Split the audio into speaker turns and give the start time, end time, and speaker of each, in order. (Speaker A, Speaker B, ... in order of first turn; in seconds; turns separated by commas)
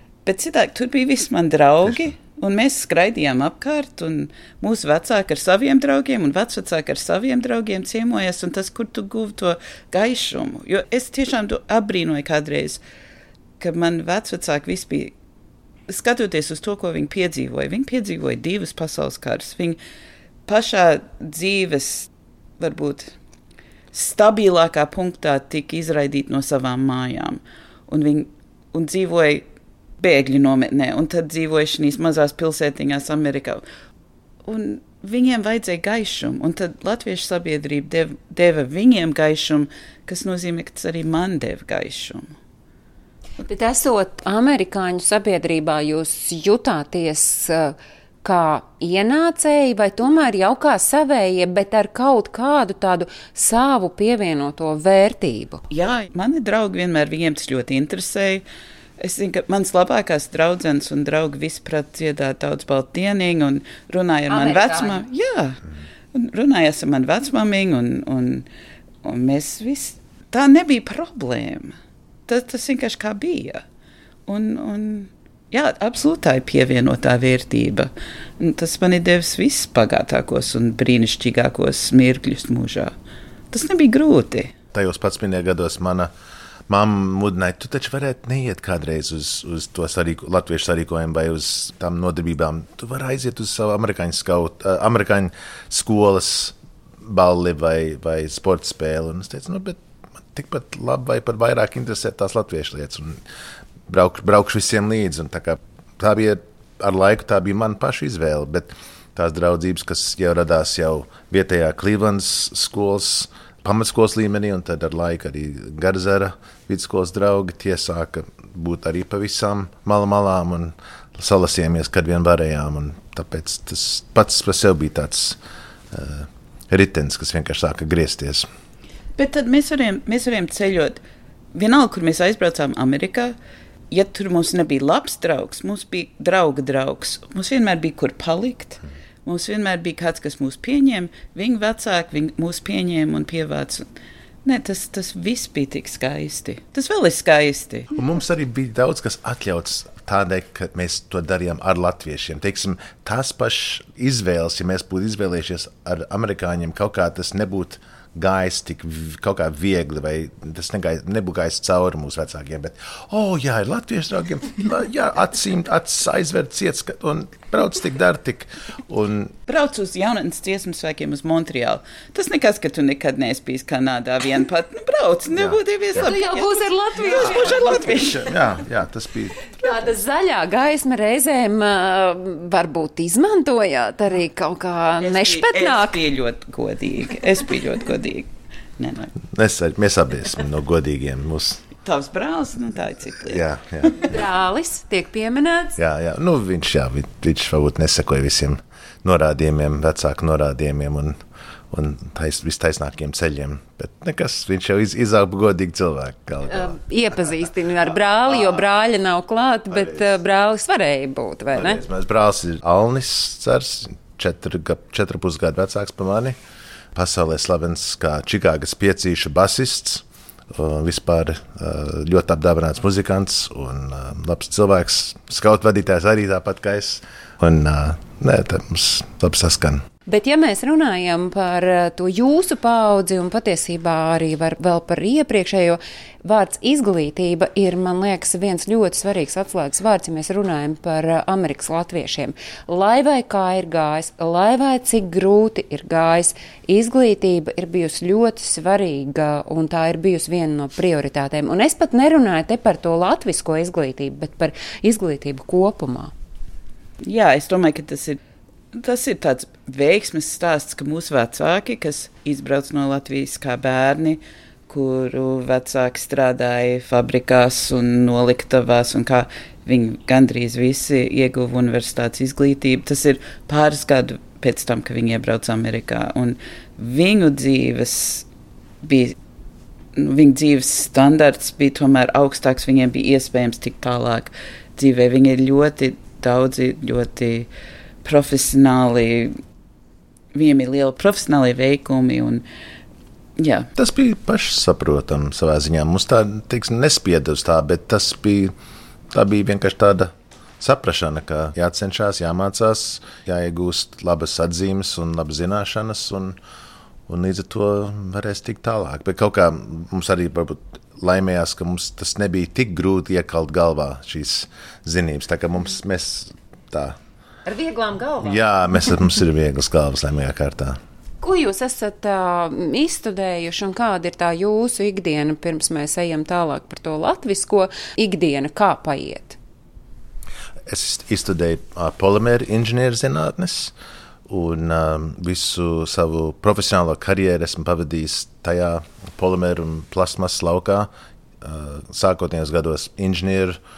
Speaker A: 0.2-12.8, Speaker A: 13.6-15.1, Speaker A: 15.9-19.8, Speaker A: 20.5-22.1, Speaker A: 22.6-23.1, Speaker A: 23.9-29.4, Speaker A: 30.0-33.6, Speaker A: 34.4-42.3, Speaker B: 43.4-55.6, Speaker A: 55.7-58.4, Speaker A: 59.0-65.6, Speaker B: 64.3-65.0, Speaker A: 66.1-68.5, Speaker A: 69.0-73.6, Speaker A: 74.3-82.9, Speaker A: 83.5-84.5, Speaker C: 84.7-86.1, Speaker C: 86.7-99.8, Speaker C: 100.3-103.2, Speaker C: 103.9-125.4, Speaker C: 125.9-128.5, Speaker A: 129.2-131.0, Speaker A: 131.5-133.3, Speaker A: 133.9-143.8, Speaker A: 144.4-147.9, Speaker C: 147.9-169.3, Speaker A: 169.5-178.3, Speaker C: 175.3-175.6, Speaker B: 176.0-178.0, Speaker C: 177.2-179.4, Speaker B: 179.6-186.0, Speaker A: 185.0-189.1, Speaker C: 189.3-191.6, Speaker A: 191.8-193.4, Speaker C: 193.2-194.2, Speaker B: 194.1-195.8, Speaker C: 195.8-201.2, Speaker C: 201.7-206.8, Speaker B: 206.5-211.8, Speaker C: 207.9-208.6, Speaker C: 209.7-210.1, Speaker C: 211.5-216.3, Speaker C: 216.9-229.8, Speaker B: 230.1-256.1, Speaker A: 257.0-258.2, Speaker A: 258.7-278.2, Speaker A: 278.8-279.1, Speaker A: 279.9-287.5, Speaker A: 288.0-289.4, Speaker A: 290.3-292.4, Speaker A: 293.4-293.7, Speaker C: 293.8-298.5, Speaker C: 299.1-306.4, Speaker C: 307.1-317.0, Speaker B: 317.4-318.4, Speaker C: 318.2-320.8, Speaker B: 321.2-329.4, Speaker C: 330.7-333.7, Speaker C: 334.3-340.9, Speaker C: 341.4-343.6